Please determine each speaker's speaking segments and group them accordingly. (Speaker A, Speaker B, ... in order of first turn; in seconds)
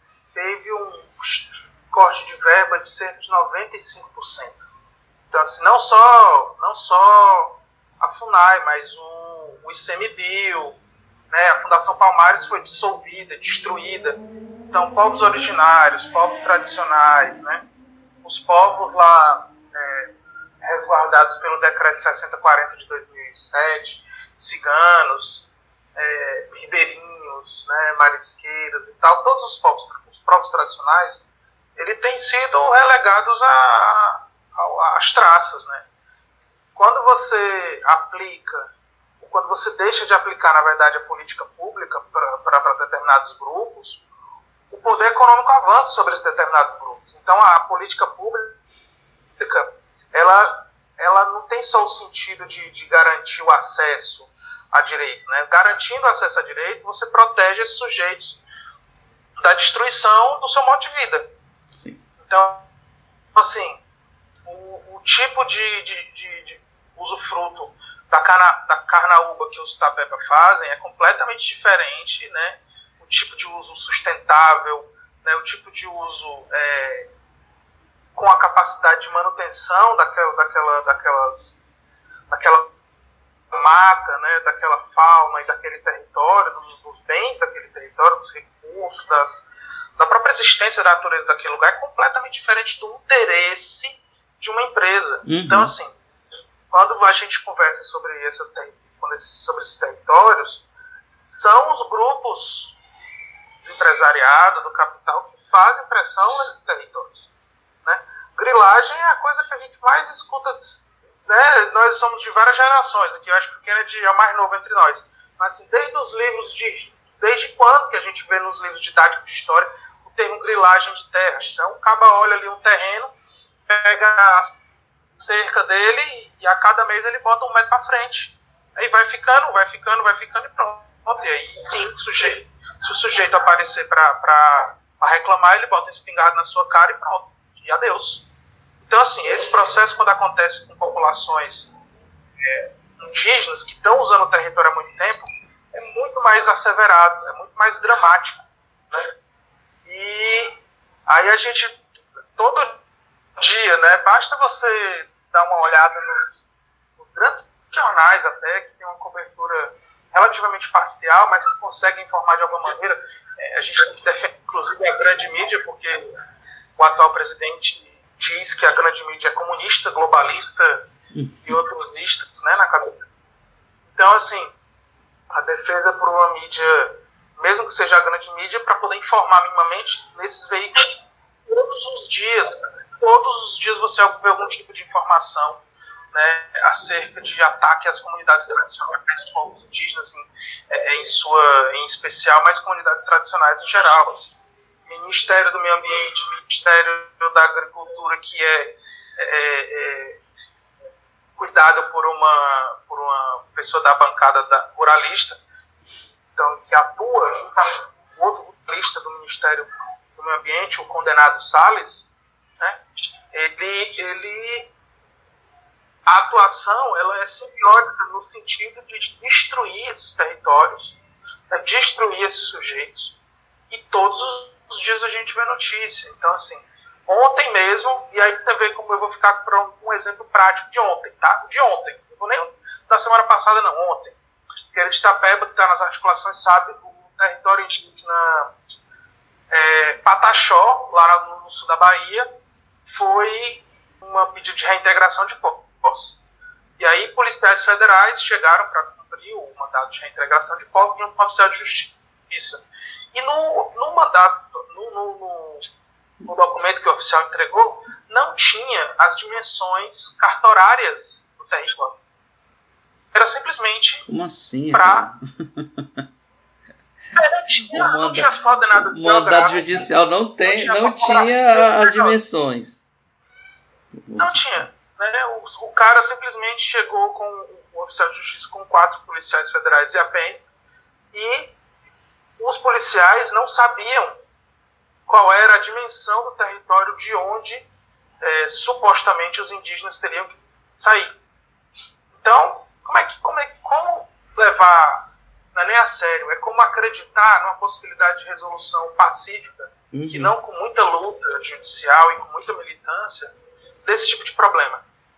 Speaker A: 0.3-4.6, 5.3-10.8, 11.3-14.2, 14.7-17.6, 18.2-20.1, 20.6-25.4, 25.9-31.2, 31.8-35.8, 36.7-38.6, 39.2-44.0, 44.7-48.6, 49.4-58.4, 59.4-61.3, 62.2-62.6, 63.3-63.8, 64.5-77.1, 78.1-81.6, 82.3-82.7, 83.5-96.0, 96.7-100.6, 101.2-102.7, 103.6-107.3, 107.8-110.6, 111.2-123.1, 123.7-124.5, 125.2-138.2, 138.8-141.7, 142.4-149.1, 149.8-150.6, 151.1-151.8, 152.3-152.8, 153.4-156.3, 157.0-166.0, 166.8-170.8, 171.4-173.0, 173.9-174.5, 175.3-185.6, 186.1-194.3, 194.9-200.2, 201.4-205.4, 206.3-212.8, 213.3-214.7, 216.1-220.9, 221.5-223.1, 223.7-234.1, 234.7-238.5, 239.5-242.3, 242.9-246.2, 246.8-252.6, 253.1-255.7, 256.2-261.9, 263.1-264.1, 264.7-265.1, 267.1-269.8, 270.4-272.1, 274.2-280.4, 281.1-281.5, 282.4-284.2, 285.1-287.6, 288.2-291.1, 292.1-303.3, 303.8-304.8
Speaker B: 95.2-95.7, 171.1-171.6, 264.1-266.0, 267.6-272.8, 273.9-274.6, 299.9-300.3